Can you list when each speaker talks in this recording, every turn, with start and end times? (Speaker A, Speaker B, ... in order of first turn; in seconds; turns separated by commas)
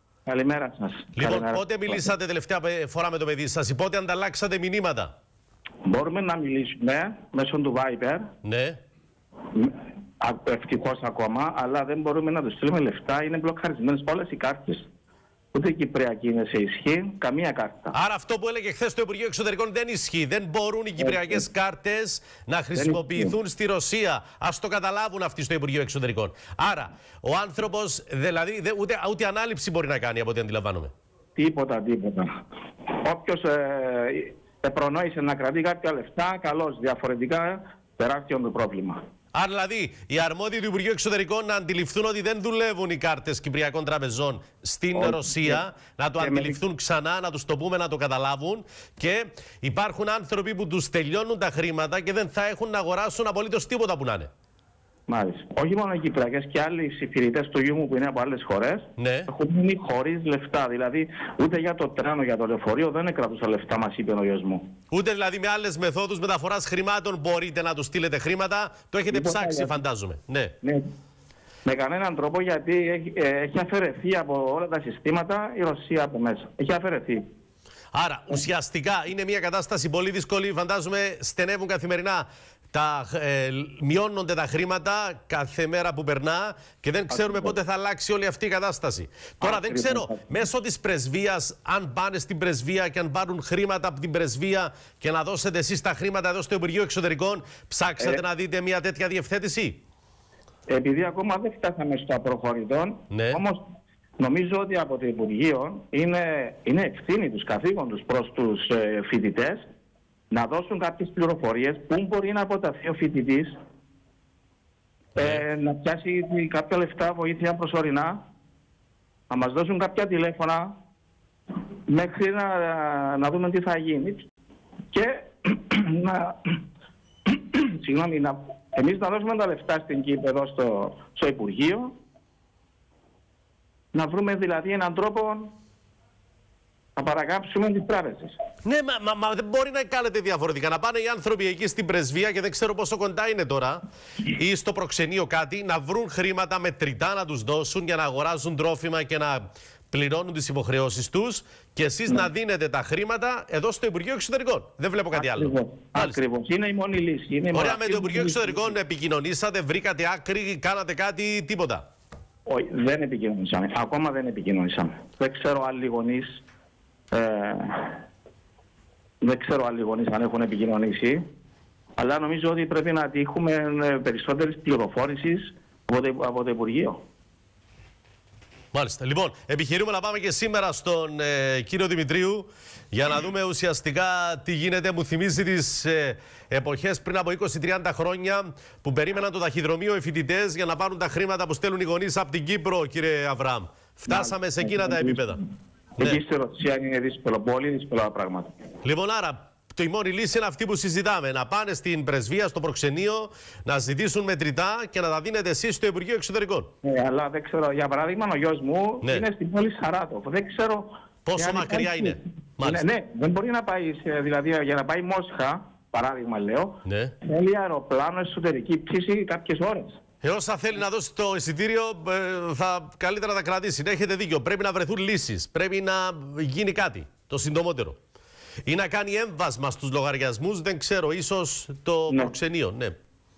Speaker A: 0.2-2.1, Speaker B: 1.2-5.1, Speaker A: 5.9-8.2, Speaker B: 8.4-8.8, Speaker A: 9.5-14.9, Speaker A: 15.5-17.9, Speaker B: 17.9-30.9, Speaker A: 21.0-21.4, Speaker A: 22.8-23.3, Speaker A: 31.4-32.3, Speaker A: 32.9-39.0, Speaker B: 39.3-54.3, Speaker A: 44.9-45.6, Speaker A: 46.2-46.6, Speaker A: 55.1-64.6, Speaker B: 59.0-59.3, Speaker B: 64.9-70.5, Speaker A: 69.1-69.7, Speaker A: 71.6-77.2, Speaker B: 77.9-99.8, Speaker A: 87.1-87.5, Speaker A: 89.4-90.4, Speaker A: 100.7-103.6, Speaker B: 103.1-103.4, Speaker A: 104.2-109.6, Speaker A: 110.3-113.5, Speaker B: 115.2-115.4, Speaker A: 115.2-118.2, Speaker A: 119.3-120.7, Speaker A: 121.9-124.2, Speaker A: 124.9-126.3, Speaker A: 127.3-131.9, Speaker A: 133.9-135.5, Speaker A: 136.9-138.4, Speaker B: 138.7-156.2, Speaker A: 155.1-158.8, Speaker B: 157.5-161.8, Speaker A: 162.4-166.4, Speaker A: 167.1-168.0, Speaker A: 169.2-171.2, Speaker A: 172.0-177.0, Speaker B: 178.7-195.4, Speaker A: 194.1-195.4, Speaker A: 196.0-198.5, Speaker B: 198.8-206.7, Speaker A: 206.8-220.0, Speaker B: 211.2-212.8, Speaker B: 216.8-217.1, Speaker B: 220.2-228.0, Speaker B: 228.7-233.0, Speaker A: 232.1-232.3